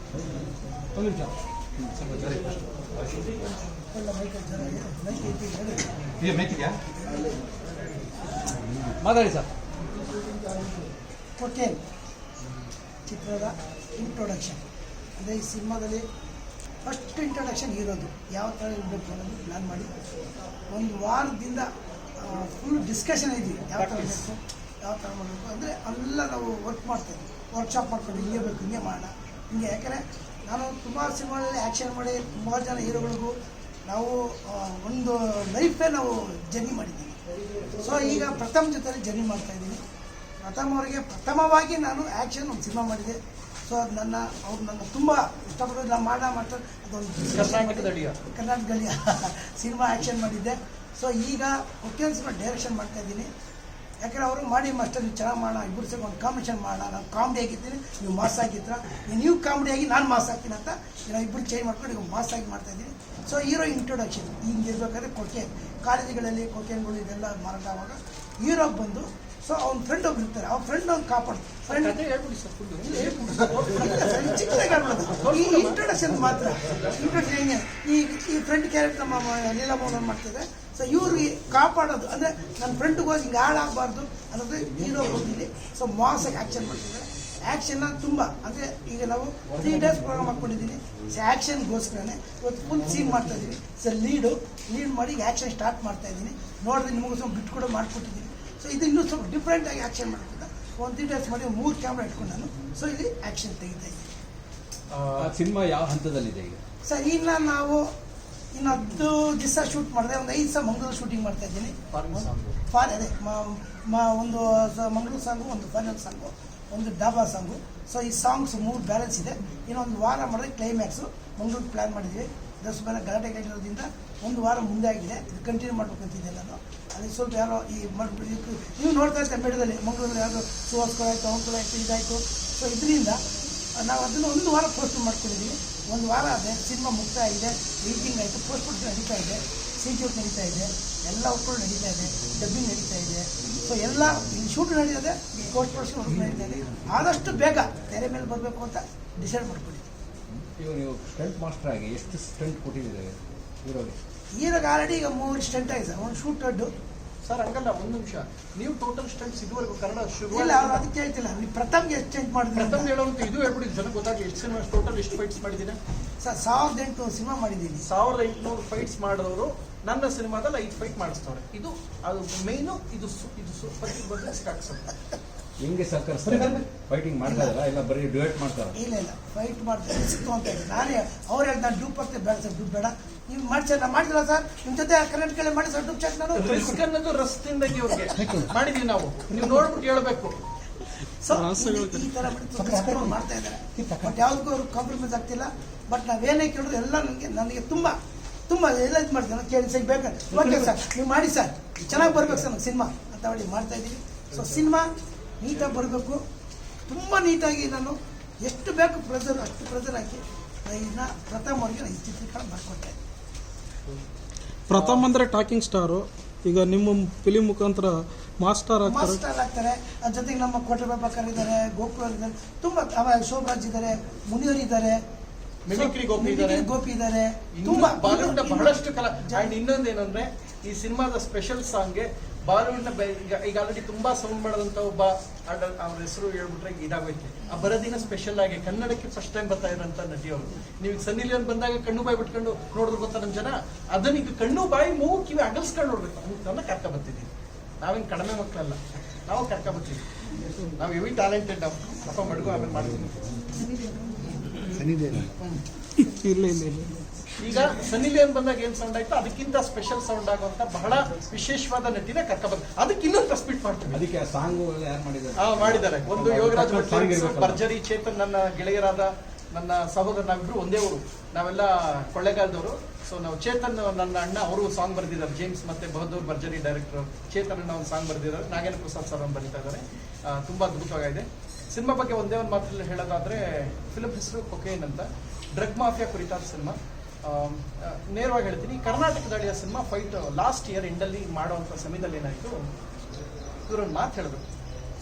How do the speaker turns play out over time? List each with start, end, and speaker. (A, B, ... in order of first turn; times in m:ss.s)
0:01.0-0:02.6 A
0:03.9-0:05.9 B
0:06.2-0:06.8 A
0:08.8-0:09.5 A
0:11.4-0:11.8 B
0:13.1-0:14.6 B
0:15.2-0:16.0 B
0:16.8-0:19.9 B
0:20.7-0:21.7 B
0:22.2-0:33.3 B
0:23.8-0:24.3 C
0:33.9-0:37.2 B
0:37.8-0:39.8 B
0:40.4-0:53.3 B
0:47.3-0:48.2 C
0:54.0-1:12.0 B
1:11.7-1:15.8 C
1:12.8-1:44.1 B
1:44.9-1:45.4 C
1:45.2-1:46.6 A
1:46.9-1:47.8 B
1:48.5-2:13.2 B
1:51.9-1:52.6 C
2:13.8-2:29.9 B
2:30.4-2:34.0 A
2:34.4-2:36.7 B
2:37.2-2:40.8 C
2:40.3-2:43.0 B
2:42.6-2:45.8 C
2:46.2-2:47.9 B
2:47.8-2:54.9 C
2:55.6-2:58.7 A
2:56.3-2:56.6 B
2:57.2-2:57.6 B
2:58.8-3:06.8 B
3:06.4-3:10.4 C
3:11.2-3:18.0 B
3:11.3-3:12.1 D
3:18.5-3:24.9 B
3:25.4-3:26.2 B
3:26.9-3:33.0 B
3:34.7-3:39.2 D
3:38.8-3:45.0 B
3:45.7-3:46.7 C
3:45.7-3:49.6 B
3:47.6-4:07.3 C
4:07.8-4:10.0 C
4:10.8-4:13.8 C
4:16.0-4:16.9 D
4:17.4-4:24.1 C
4:23.9-4:27.6 A
4:25.4-4:52.6 C
4:53.7-4:54.4 C